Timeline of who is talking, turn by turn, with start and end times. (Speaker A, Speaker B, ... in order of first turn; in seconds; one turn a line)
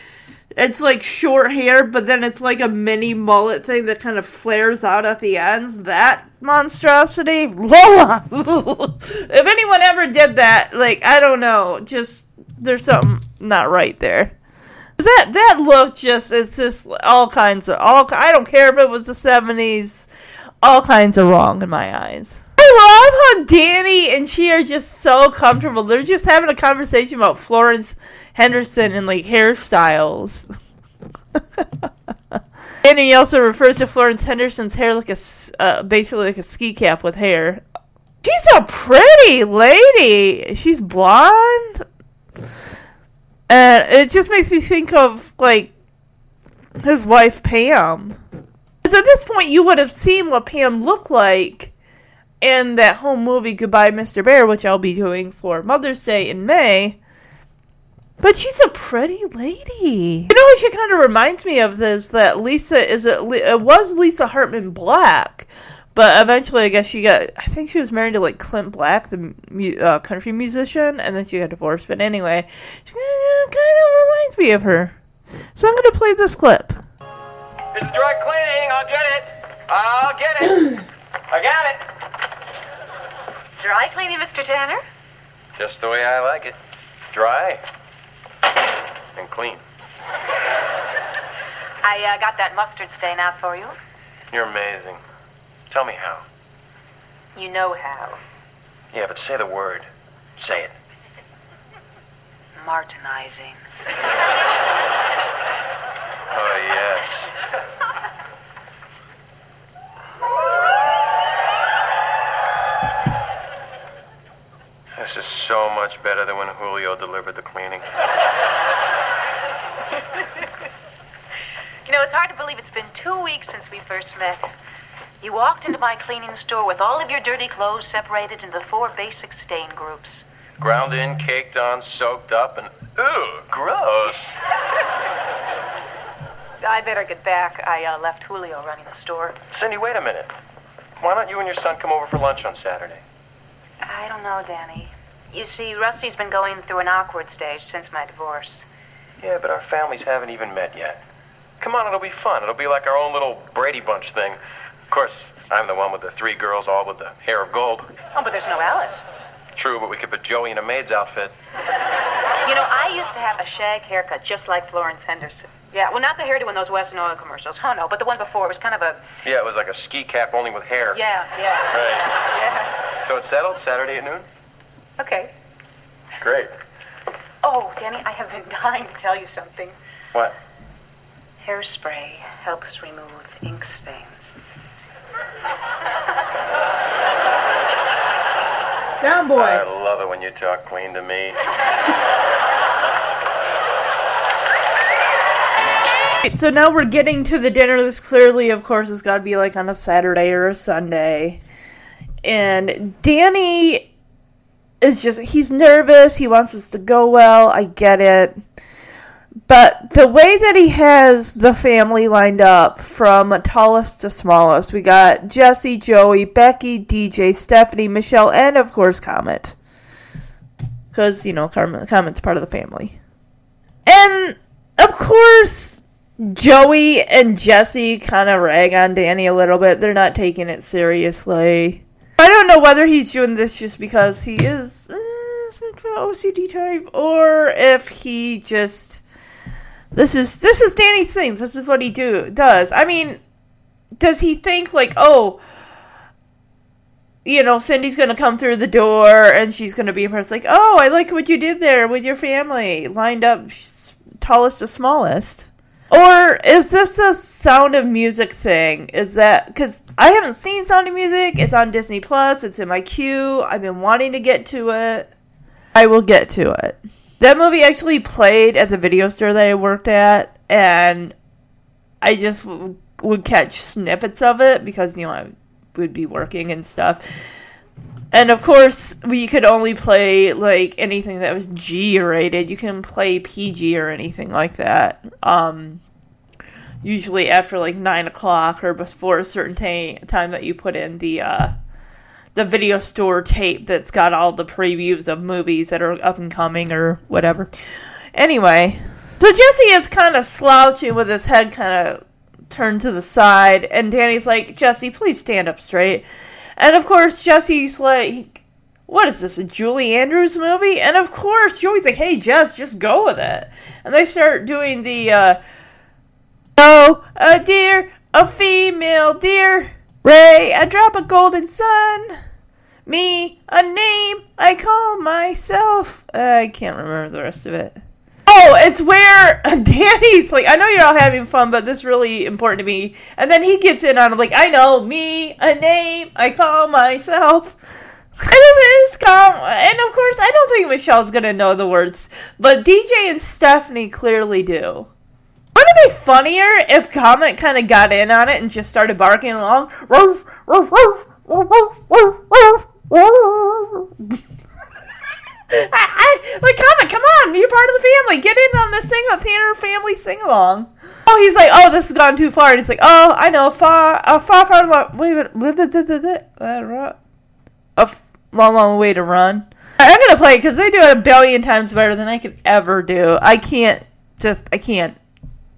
Speaker A: 0.6-14.3
Speaker A: 15.0-20.1
Speaker A: 20.6-30.5
Speaker A: 31.6-37.6
Speaker A: 38.2-41.8
Speaker A: 43.5-45.7
Speaker A: 46.8-48.2
Speaker A: 48.8-51.7
Speaker A: 52.4-57.0
Speaker A: 58.2-75.0
Speaker A: 75.6-76.8
Speaker B: 77.7-81.8
Speaker C: 83.6-84.8
Speaker B: 85.6-86.6
Speaker B: 87.1-87.6
Speaker B: 89.1-89.6
Speaker C: 91.8-93.8
Speaker B: 94.3-95.0
Speaker B: 95.7-96.2
Speaker C: 97.3-98.2
Speaker B: 98.9-100.8
Speaker C: 102.6-103.6
Speaker B: 106.3-107.3
Speaker B: 115.0-117.9
Speaker C: 121.9-124.5
Speaker C: 125.2-130.3
Speaker B: 130.6-134.3
Speaker C: 136.6-139.4
Speaker B: 139.5-140.3
Speaker B: 141.0-143.0
Speaker C: 143.8-148.7
Speaker B: 149.2-151.0
Speaker B: 151.6-157.9
Speaker C: 158.1-159.1
Speaker B: 159.6-161.3
Speaker C: 162.4-169.0
Speaker B: 169.2-171.1
Speaker C: 170.9-172.7
Speaker B: 171.7-172.2
Speaker B: 173.0-174.3
Speaker C: 175.0-175.3
Speaker B: 176.2-176.5
Speaker C: 177.4-179.8
Speaker C: 181.4-184.4
Speaker A: 189.0-189.6
Speaker B: 189.3-191.4
Speaker A: 196.2-201.4
Speaker A: 202.2-203.9
Speaker A: 204.8-208.4
Speaker A: 209.5-219.6
Speaker A: 220.9-223.0
Speaker A: 223.9-239.0
Speaker A: 239.9-243.2
Speaker A: 244.0-245.4
Speaker A: 247.2-265.1
Speaker A: 265.8-271.1
Speaker A: 272.0-277.0
Speaker A: 278.1-285.8
Speaker A: 286.8-291.5
Speaker A: 292.4-297.5
Speaker A: 298.1-306.1
Speaker A: 306.6-315.4
Speaker A: 316.6-322.2
Speaker A: 322.9-337.6
Speaker A: 338.2-344.9
Speaker A: 345.5-354.2
Speaker A: 355.5-367.0
Speaker A: 367.8-375.0